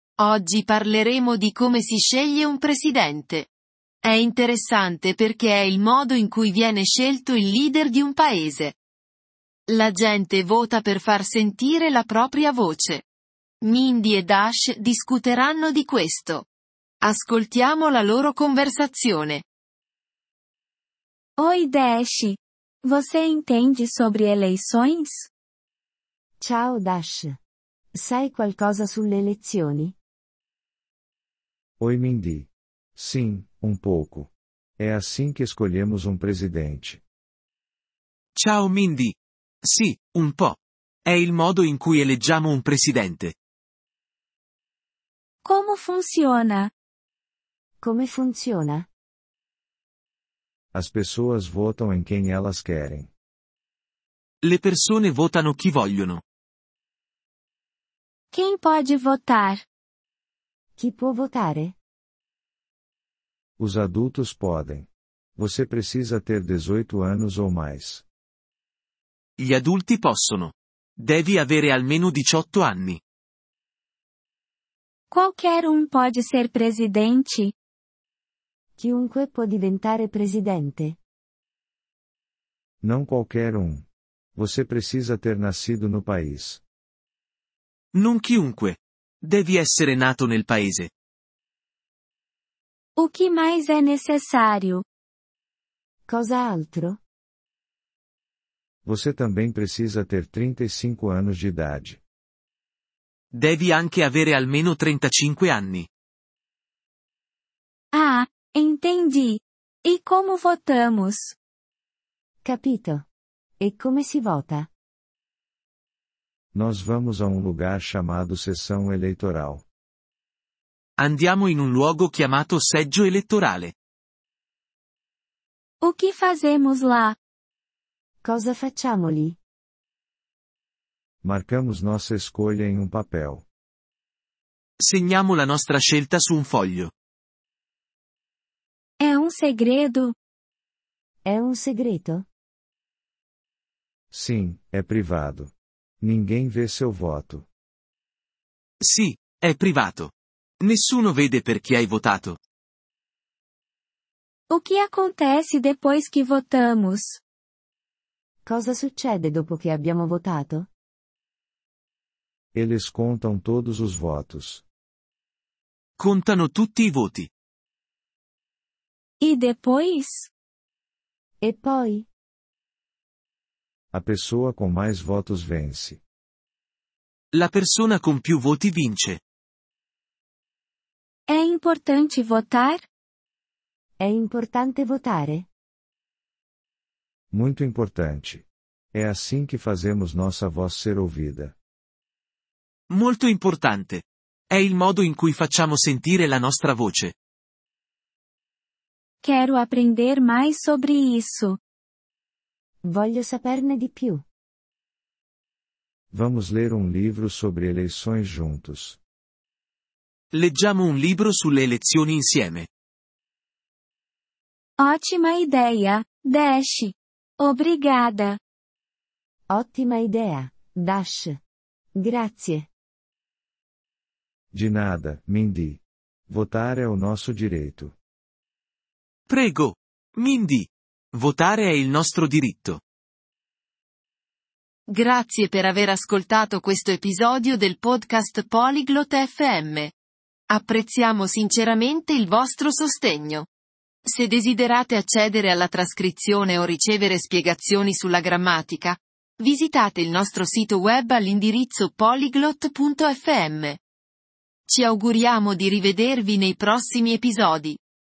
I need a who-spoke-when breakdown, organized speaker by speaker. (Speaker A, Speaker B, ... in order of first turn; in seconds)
Speaker A: 0.2-3.5, 4.0-8.8, 9.7-13.1, 13.6-16.5, 17.0-19.4, 234.9-239.9, 240.5-243.5, 244.1-253.8, 254.7-257.8
Speaker B: 21.4-25.3, 45.5-46.7, 58.3-59.6, 75.1-77.5, 93.0-94.8, 107.9-111.3, 125.8-127.2, 139.0-140.2, 154.5-157.2, 169.2-170.3, 181.3-182.8, 199.2-201.6, 214.8-218.4
Speaker C: 26.4-27.4, 27.9-30.0, 47.8-48.9, 60.8-61.8, 78.8-81.0, 96.1-97.0, 112.4-113.1, 113.6-114.7, 128.2-129.4, 141.2-142.3, 158.5-160.7, 171.4-172.1, 184.0-185.5, 202.8-204.2, 219.5-221.4, 222.0-222.7
Speaker D: 31.8-37.0, 50.7-53.1, 63.6-68.0, 82.8-86.6, 98.9-102.0, 116.5-119.7, 131.2-133.4, 144.1-147.5, 162.6-164.6, 173.9-176.0, 187.3-191.6, 206.1-209.0, 224.5-227.9
Speaker E: 38.4-43.4, 54.4-56.2, 69.4-73.0, 87.9-90.9, 103.3-105.9, 121.0-123.7, 134.8-136.9, 148.8-152.4, 166.0-167.3, 177.3-179.2, 192.9-197.1, 210.3-212.7, 229.3-232.8